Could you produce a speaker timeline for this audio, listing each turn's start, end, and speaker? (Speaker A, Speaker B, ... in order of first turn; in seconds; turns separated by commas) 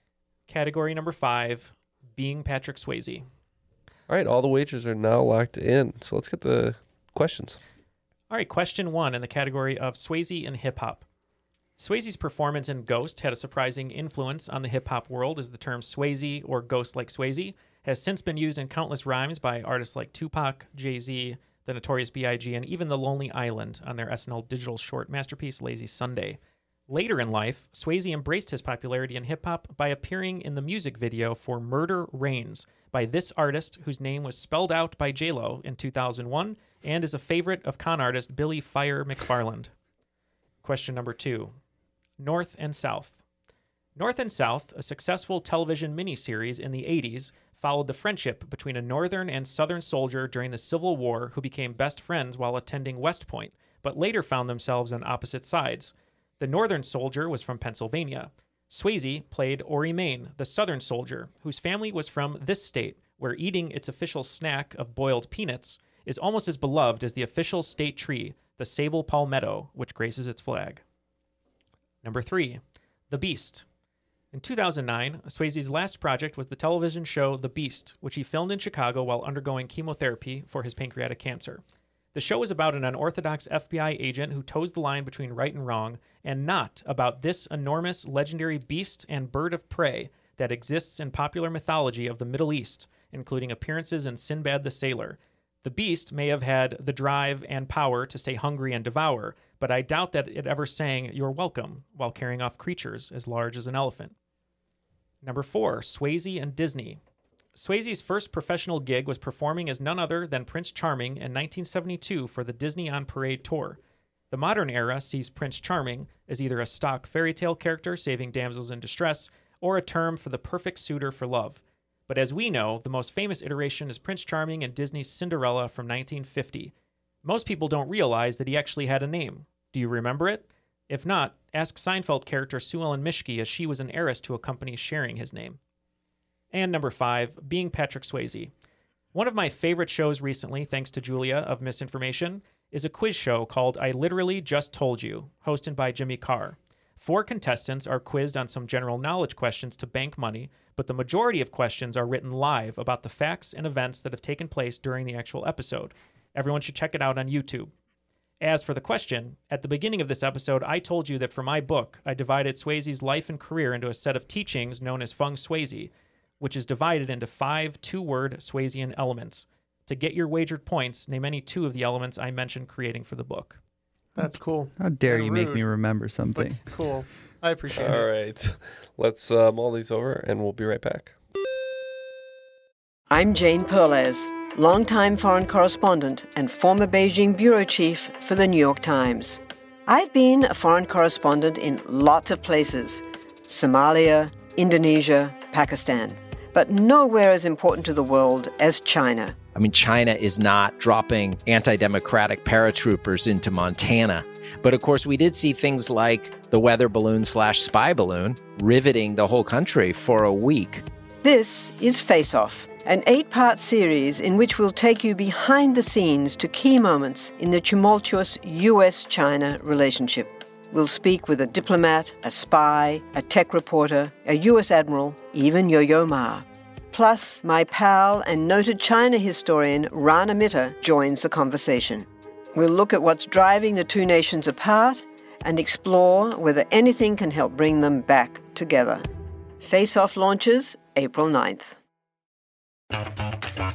Speaker A: 0.5-3.2, Speaker B: 4.1-7.6, Speaker A: 8.3-11.0, Speaker A: 11.8-39.7, Speaker A: 40.6-41.5, Speaker A: 42.2-43.1, Speaker A: 44.0-70.8, Speaker A: 72.0-73.6, Speaker A: 74.3-81.6, Speaker A: 82.1-104.1, Speaker A: 105.2-107.0, Speaker A: 107.5-113.8, Speaker A: 114.3-126.7, Speaker A: 127.2-135.6, Speaker A: 136.5-138.5, Speaker A: 139.1-157.7, Speaker A: 158.4-173.6, Speaker C: 174.2-175.6, Speaker D: 174.2-176.8, Speaker C: 176.3-178.1, Speaker B: 177.7-181.1, Speaker E: 183.1-199.3, Speaker F: 199.5-210.8, Speaker E: 211.2-239.1, Speaker E: 239.6-241.8